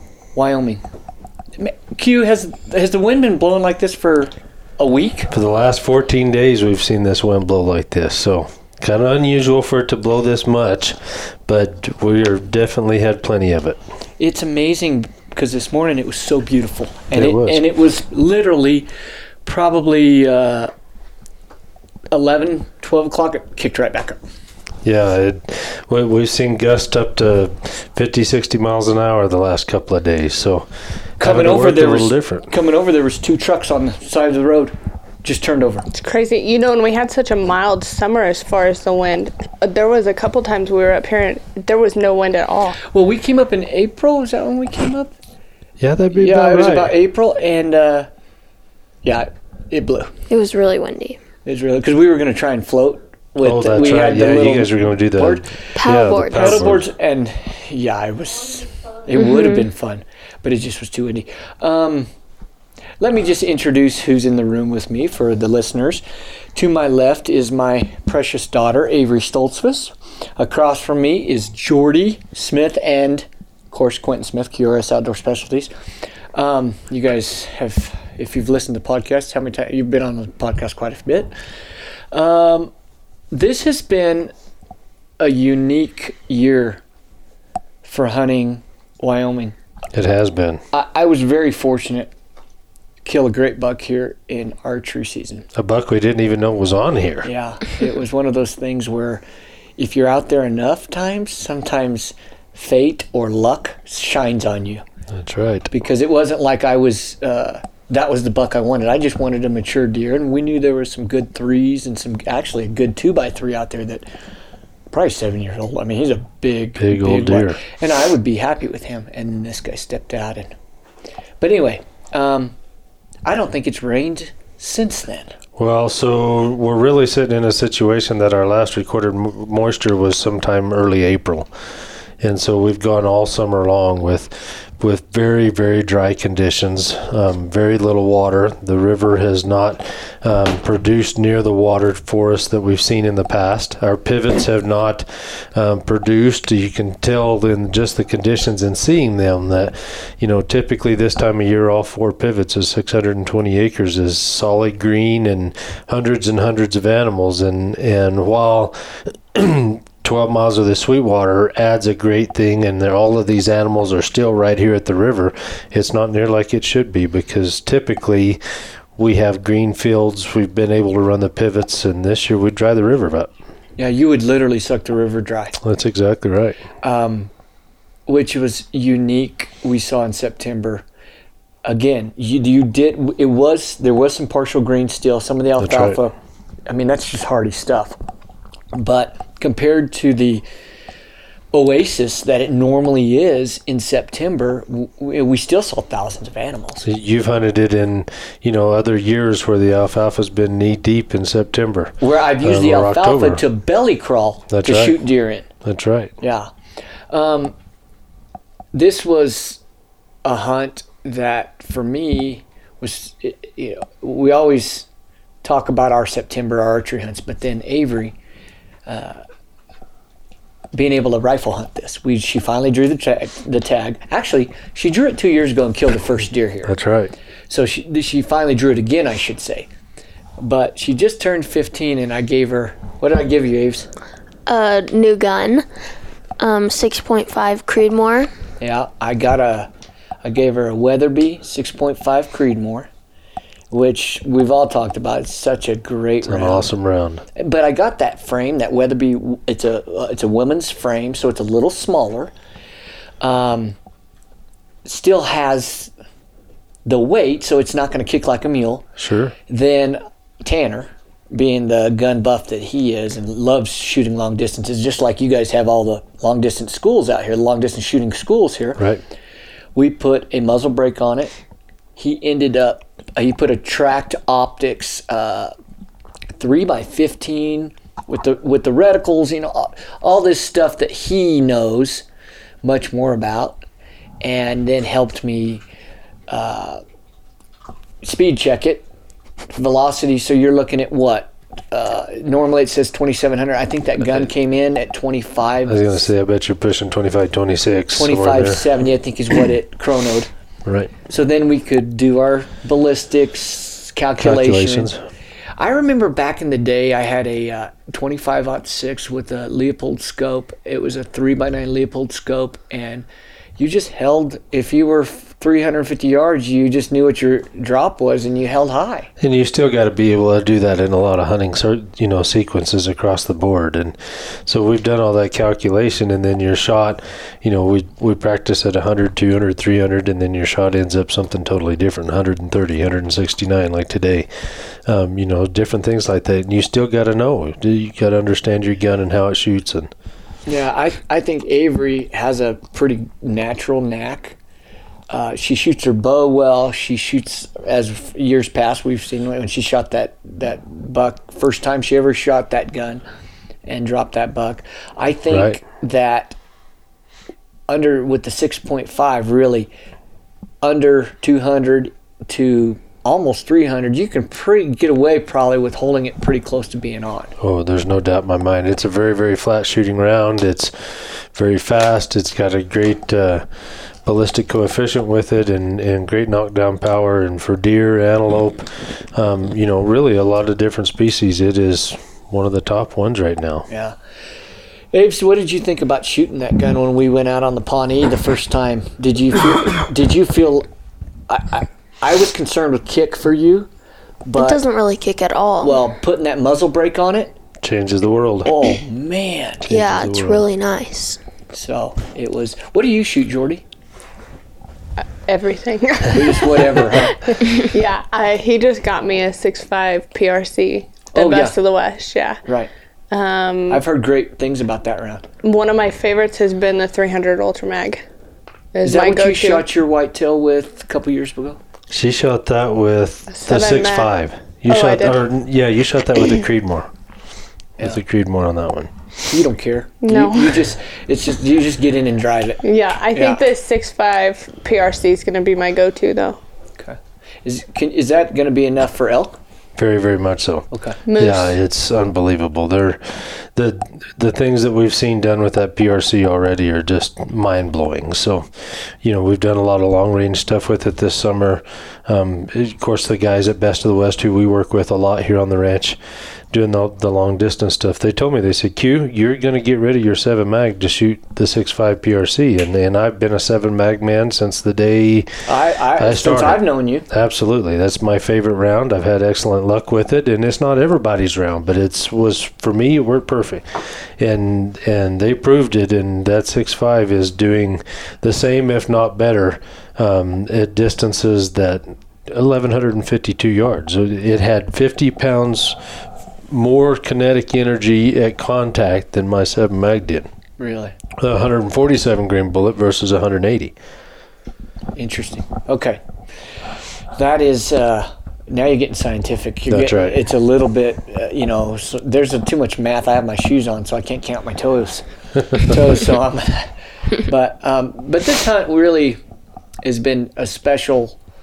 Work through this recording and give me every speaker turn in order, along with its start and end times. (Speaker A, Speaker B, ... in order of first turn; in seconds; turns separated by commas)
Speaker A: 0.3-0.8, Speaker A: 1.6-5.3, Speaker B: 5.3-13.8, Speaker A: 14.2-18.9, Speaker B: 17.1-17.6, Speaker A: 19.4-20.7, Speaker A: 22.1-24.2, Speaker B: 24.8-32.5, Speaker A: 31.2-35.9, Speaker C: 35.9-42.8, Speaker A: 42.9-45.1, Speaker B: 45.8-46.9, Speaker A: 46.1-48.1, Speaker A: 49.0-50.2, Speaker D: 50.3-51.2, Speaker A: 51.5-62.1, Speaker B: 53.4-56.8, Speaker D: 55.8-56.6, Speaker D: 59.2-59.7, Speaker A: 63.0-66.0, Speaker A: 66.5-75.7, Speaker A: 76.3-81.3, Speaker A: 82.1-82.7, Speaker A: 83.3-84.3, Speaker A: 85.2-86.8, Speaker A: 87.8-89.6, Speaker B: 89.9-90.6, Speaker A: 90.7-92.1, Speaker A: 93.0-95.5, Speaker B: 95.5-97.3, Speaker A: 97.2-99.2, Speaker A: 99.8-104.8, Speaker B: 105.1-105.7, Speaker A: 105.7-114.0, Speaker A: 114.9-120.5, Speaker B: 116.8-117.6, Speaker A: 121.4-122.6, Speaker A: 123.2-125.4, Speaker B: 125.6-131.5, Speaker B: 132.2-168.4, Speaker B: 169.0-173.3, Speaker A: 173.8-175.6, Speaker B: 175.6-176.6, Speaker A: 176.8-177.3, Speaker A: 178.1-180.8, Speaker A: 181.7-186.1, Speaker B: 185.6-186.0, Speaker A: 186.7-188.0, Speaker A: 188.7-190.4, Speaker A: 191.5-196.9, Speaker B: 196.8-203.4, Speaker A: 202.0-205.5, Speaker B: 204.5-205.0, Speaker B: 205.6-206.1, Speaker A: 206.2-206.5, Speaker A: 207.1-207.5, Speaker A: 208.7-209.6, Speaker A: 210.2-214.9, Speaker A: 215.4-218.2, Speaker A: 218.9-219.2, Speaker A: 220.7-226.8, Speaker B: 226.7-227.1, Speaker A: 227.5-229.7, Speaker A: 230.4-233.9, Speaker D: 234.5-235.7, Speaker D: 236.4-238.3, Speaker A: 238.6-239.7, Speaker A: 240.2-242.9, Speaker A: 243.7-246.7, Speaker B: 246.2-247.2, Speaker A: 247.3-252.3, Speaker A: 253.2-253.8, Speaker A: 254.8-255.9, Speaker A: 256.9-258.9, Speaker B: 259.0-259.4, Speaker A: 259.5-268.8, Speaker B: 268.8-269.0, Speaker A: 269.8-271.3, Speaker A: 272.0-275.5, Speaker A: 276.4-282.1, Speaker A: 282.6-283.6, Speaker A: 284.2-285.6, Speaker A: 286.3-286.8, Speaker A: 288.0-288.9, Speaker A: 289.5-296.1, Speaker B: 295.7-298.6, Speaker A: 297.9-300.3, Speaker B: 300.6-300.9, Speaker A: 301.1-304.9, Speaker B: 304.2-305.0, Speaker A: 305.6-313.1, Speaker A: 313.6-319.1, Speaker B: 319.2-339.9, Speaker A: 340.5-344.4, Speaker A: 345.1-353.0, Speaker A: 353.7-356.4, Speaker B: 355.3-355.6, Speaker A: 357.7-359.7, Speaker A: 360.6-367.3, Speaker B: 367.4-373.5, Speaker B: 374.0-383.7, Speaker A: 383.7-384.0, Speaker A: 384.9-390.7, Speaker A: 391.3-393.7, Speaker A: 394.2-394.6, Speaker D: 394.4-395.8, Speaker A: 395.6-397.4, Speaker B: 397.6-398.8, Speaker A: 398.4-399.7, Speaker B: 399.7-400.4, Speaker D: 399.7-401.2, Speaker A: 401.5-403.6, Speaker C: 405.0-412.4, Speaker A: 406.1-407.2, Speaker A: 411.1-411.6, Speaker A: 412.4-412.7, Speaker C: 413.1-413.8, Speaker A: 413.7-415.3, Speaker C: 415.4-418.1, Speaker C: 418.7-419.7, Speaker A: 418.8-421.6, Speaker B: 421.9-426.9, Speaker C: 423.3-424.1, Speaker C: 424.7-425.2, Speaker B: 427.8-428.9, Speaker A: 429.3-433.5, Speaker C: 430.0-430.7, Speaker C: 432.6-436.4, Speaker A: 436.8-439.4, Speaker B: 439.8-456.0, Speaker A: 440.7-441.0, Speaker C: 441.1-441.6, Speaker B: 456.5-465.4, Speaker A: 465.5-467.1, Speaker B: 466.0-485.8, Speaker B: 486.5-490.3, Speaker A: 490.6-490.9, Speaker B: 491.2-493.7, Speaker A: 494.9-496.0, Speaker A: 497.1-509.2, Speaker B: 499.7-500.2, Speaker A: 509.9-511.2